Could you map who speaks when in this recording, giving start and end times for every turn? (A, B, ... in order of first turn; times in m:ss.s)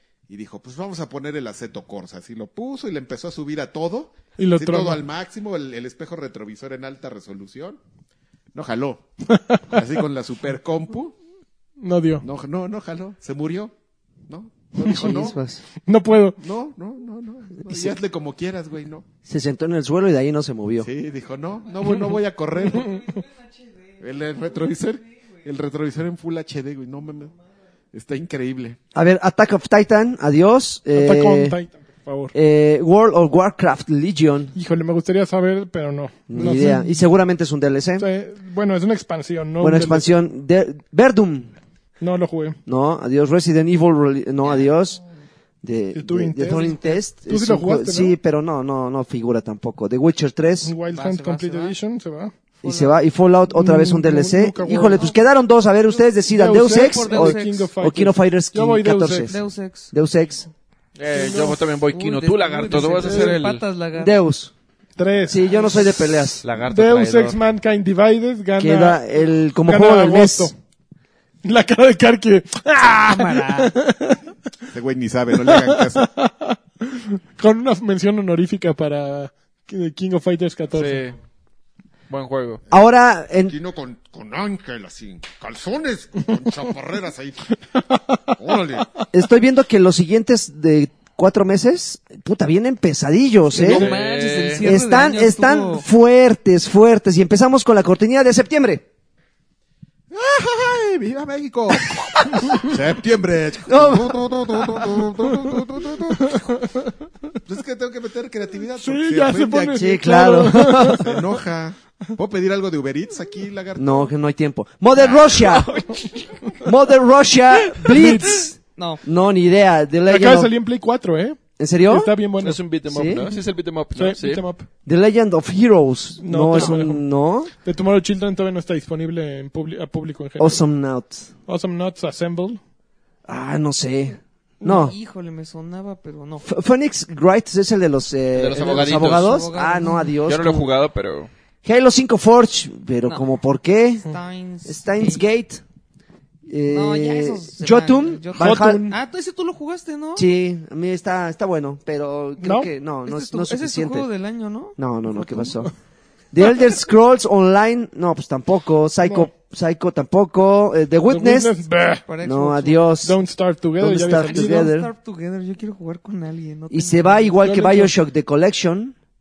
0:00.3-0:07.8 A
0:04.4-0:05.0 B
0:08.5-0:09.1 A
0:09.3-0:09.8 B
0:09.7-0:11.1 A
0:11.8-0:12.2 B
0:12.2-0:13.7 A
0:14.3-0:15.4 A
0:14.8-0:15.6 C
0:14.9-0:15.2 B
0:15.8-0:16.4 B
0:16.4-0:19.0 A
0:17.6-0:18.0 C
0:19.2-0:20.9 C
0:20.8-0:23.0 A
0:24.0-0:27.3 A
0:27.9-0:28.8 A
0:28.9-0:31.6 C
0:30.9-0:32.4 B
0:32.3-0:34.5 C
0:34.6-0:37.0 B
0:36.3-0:38.1 C
0:38.0-0:40.0 B
0:39.6-0:41.5 C
0:42.0-0:42.6 B
0:42.7-0:45.0 C
0:45.6-0:50.7 C
0:46.0-0:48.2 B
0:50.6-0:52.3 B
0:50.9-0:51.8 D
0:52.6-0:53.0 D
0:52.6-0:59.4 C
0:53.5-0:55.1 B
0:56.3-0:59.3 B
0:56.7-0:57.7 D
0:59.3-0:59.9 D
0:59.9-1:00.5 C
1:01.0-1:03.6 E
1:01.1-1:01.6 B
1:01.9-1:04.2 D
1:02.7-1:03.4 B
1:04.0-1:04.5 C
1:05.0-1:05.9 B
1:05.3-1:06.4 C
1:06.4-1:07.4 E
1:06.6-1:09.0 B
1:08.6-1:10.5 C
1:09.6-1:10.6 B
1:11.4-1:14.2 B
1:14.7-1:16.1 A
1:15.4-1:21.1 B
1:20.7-1:21.2 E
1:22.1-1:22.6 E
1:22.7-1:23.6 C
1:23.5-1:27.6 A
1:27.9-1:28.2 B
1:28.4-1:29.0 A
1:29.1-1:33.9 C
1:33.6-1:35.8 D
1:33.6-1:34.7 E
1:34.6-1:38.8 C
1:40.1-1:46.5 A
1:43.7-1:44.9 C
1:46.2-1:46.9 B
1:47.5-1:50.0 A
1:48.8-1:51.2 B
1:49.7-1:51.2 C
1:50.9-1:54.1 A
1:53.8-1:55.7 C
1:55.0-1:56.4 E
1:56.6-2:00.5 C
1:57.6-1:57.9 E
1:57.9-1:58.4 B
1:58.8-1:59.0 D
2:00.1-2:02.6 B
2:01.6-2:02.1 C
2:02.4-2:04.5 E
2:02.9-2:03.2 C
2:04.0-2:04.7 B
2:04.8-2:07.5 C
2:06.2-2:07.0 B
2:07.6-2:10.6 B
2:10.4-2:11.3 C
2:11.5-2:12.6 B
2:13.3-2:14.9 C
2:14.7-2:16.5 D
2:16.4-2:20.7 C
2:18.3-2:19.4 E
2:18.6-2:20.1 D
2:20.2-2:21.3 E
2:21.6-2:24.0 C
2:24.0-2:25.2 D
2:24.7-2:25.6 C
2:26.5-2:28.9 C
2:26.7-2:30.3 D
2:28.4-2:29.0 B
2:30.2-2:34.1 C
2:32.4-2:32.7 B
2:33.0-2:34.8 D
2:34.8-2:35.7 C
2:35.2-2:35.7 B
2:36.3-2:41.6 C
2:39.0-2:39.3 B
2:41.1-2:42.0 B
2:42.1-2:42.9 D
2:42.2-2:43.2 C
2:43.0-2:44.7 B
2:43.8-2:44.9 C
2:44.3-2:47.4 D
2:46.7-2:49.0 C
2:47.4-2:47.9 B